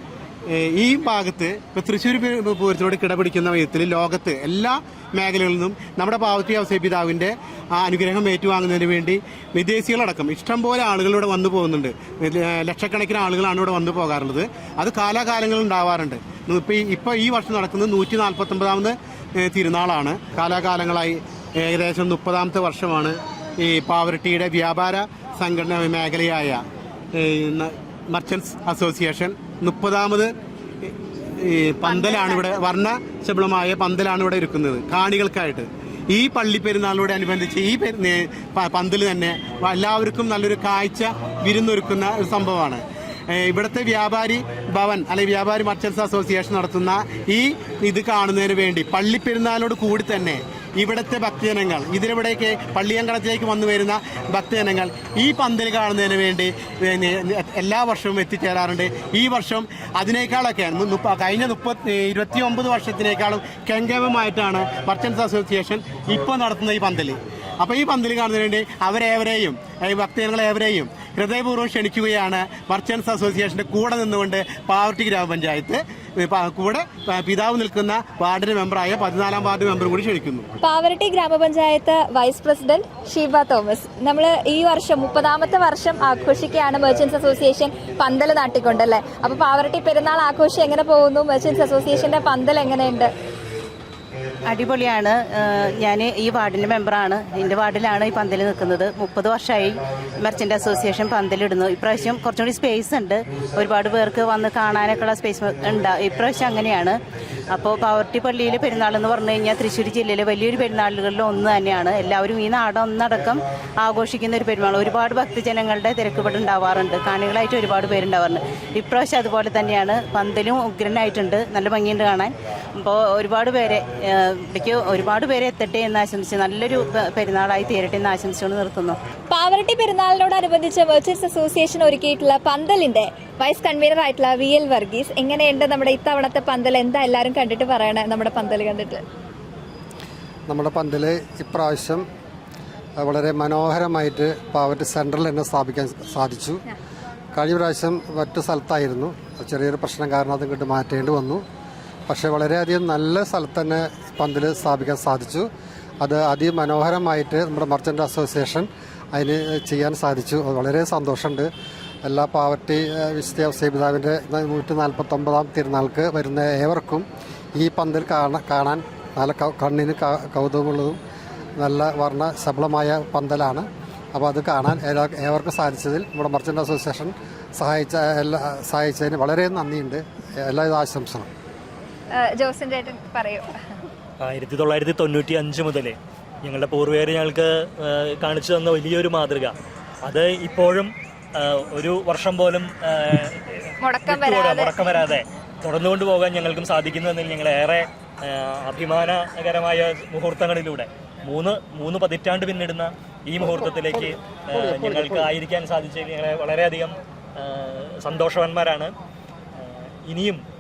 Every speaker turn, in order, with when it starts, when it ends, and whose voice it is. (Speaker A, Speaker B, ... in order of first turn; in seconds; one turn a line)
Speaker A: 0.5-26.6
Speaker A: 27.1-30.3
Speaker A: 30.8-80.5
Speaker B: 80.6-93.1
Speaker C: 94.4-107.0
Speaker C: 107.5-129.0
Speaker B: 129.3-139.0
Speaker D: 140.5-142.1
Speaker D: 143.0-146.6
Speaker D: 147.3-151.4
Speaker D: 152.1-155.5
Speaker D: 156.0-161.5
Speaker D: 162.0-171.0
Speaker D: 171.6-181.3
Speaker B: 182.1-183.5
Speaker E: 184.2-189.5
Speaker E: 190.1-193.4
Speaker B: 193.8-194.8
Speaker E: 194.1-208.9
Speaker E: 210.0-210.4